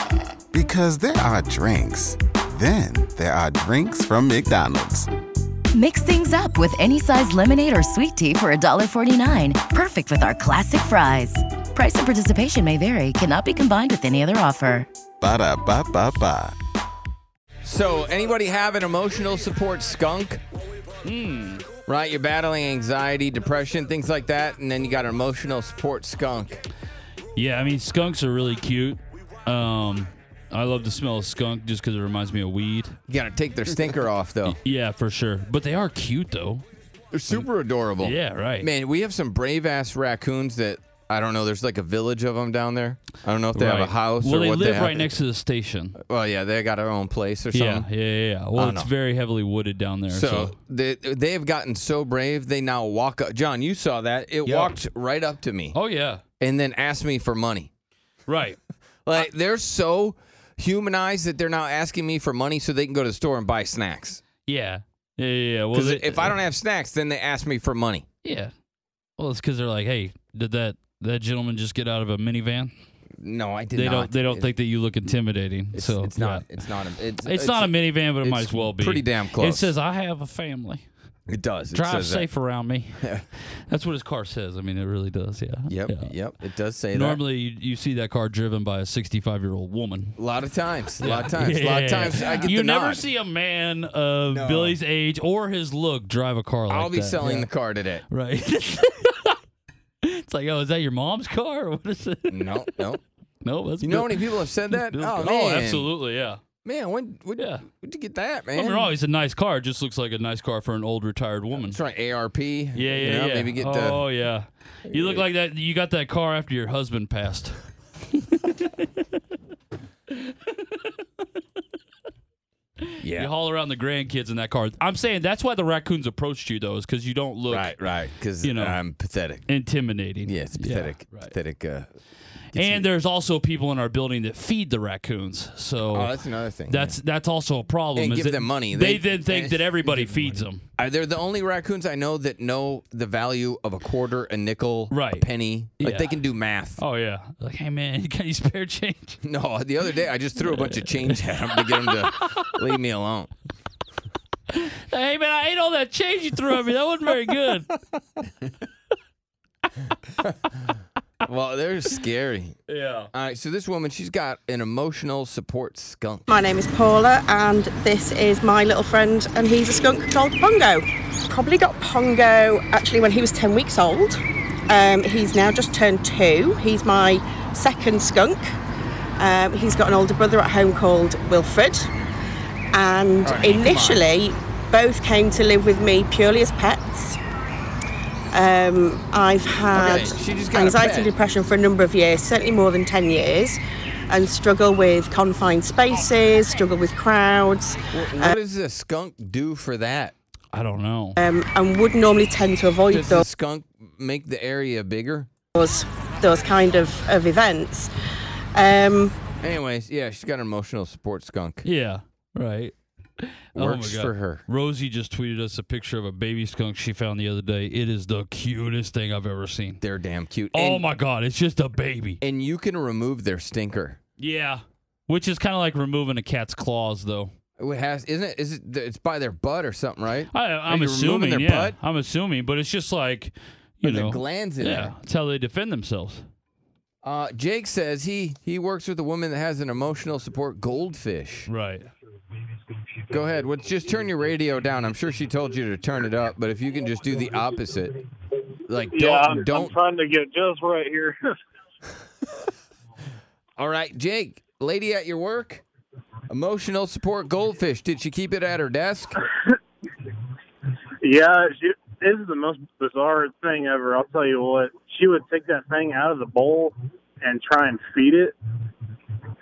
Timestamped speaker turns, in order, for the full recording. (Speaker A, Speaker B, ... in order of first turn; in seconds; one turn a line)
Speaker A: 0.5-5.1
Speaker B: 5.7-14.9
Speaker A: 15.2-16.5
Speaker C: 17.6-20.4
Speaker D: 21.0-21.7
Speaker C: 21.9-26.6
Speaker D: 27.4-33.0
Speaker C: 33.1-34.6
Speaker D: 34.5-36.6
Speaker C: 37.1-45.1
Speaker D: 38.0-38.7
Speaker D: 43.5-45.9
Speaker C: 46.0-47.9
Speaker D: 47.5-50.5
Speaker C: 48.5-48.9
Speaker C: 50.1-55.8
Speaker D: 54.5-54.7
Speaker D: 55.7-56.2
Speaker C: 56.4-57.7
Speaker D: 58.3-58.6
Speaker C: 59.0-64.2
Speaker D: 64.5-66.4
Speaker C: 65.7-68.0
Speaker D: 68.2-68.5
Speaker D: 69.2-72.7
Speaker C: 73.2-74.5
Speaker D: 73.7-76.5
Speaker C: 75.7-79.7
Speaker D: 77.2-80.9
Speaker C: 81.3-82.3
Speaker D: 81.7-83.0
Speaker D: 83.7-86.1
Speaker C: 85.7-87.2
Speaker D: 86.9-90.2
Speaker C: 90.2-93.1
Speaker D: 91.0-97.5
Speaker C: 94.3-94.8
Speaker C: 96.7-98.0
Speaker D: 98.1-99.3
Speaker D: 100.0-102.9
Speaker C: 102.3-103.0
Speaker D: 103.4-106.4
Speaker C: 103.8-105.9
Speaker C: 106.6-108.9
Speaker D: 108.5-111.8
Speaker C: 111.5-114.0
Speaker D: 112.7-117.6
Speaker C: 114.9-115.2
Speaker D: 118.3-118.7
Speaker C: 123.0-123.3
Speaker D: 123.1-128.8
Speaker C: 127.5-129.5
Speaker D: 129.5-131.3
Speaker C: 130.2-131.9
Speaker C: 132.5-132.9
Speaker D: 132.5-136.1
Speaker C: 135.9-137.0
Speaker D: 136.7-140.6
Speaker C: 137.9-146.8
Speaker D: 144.9-145.3
Speaker D: 145.8-146.1
Speaker D: 146.8-149.2
Speaker C: 149.2-153.3
Speaker D: 150.3-152.5
Speaker D: 154.5-157.7
Speaker C: 161.2-162.6
Speaker D: 162.7-163.1
Speaker C: 163.1-166.3
Speaker E: 166.3-178.6
Speaker E: 179.2-181.9
Speaker E: 182.7-187.2
Speaker C: 183.2-184.1
Speaker E: 188.3-193.6
Speaker C: 189.7-191.1
Speaker E: 194.1-198.3
Speaker C: 197.9-200.1
Speaker D: 200.5-201.2
Speaker E: 201.2-203.2
Speaker C: 202.9-205.3
Speaker E: 205.5-207.9
Speaker E: 208.5-209.1
Speaker C: 209.4-211.7
Speaker D: 211.6-219.8
Speaker C: 213.5-214.4
Speaker C: 219.8-220.9
Speaker D: 220.5-222.2
Speaker C: 222.2-224.0
Speaker D: 224.2-227.3
Speaker C: 227.6-231.8
Speaker D: 230.3-236.3
Speaker C: 233.8-234.9
Speaker C: 237.0-241.5
Speaker D: 241.5-241.9
Speaker C: 243.1-247.9
Speaker C: 248.7-249.8
Speaker F: 248.9-251.3
Speaker C: 253.6-255.6
Speaker C: 256.3-259.2
Speaker F: 261.0-268.4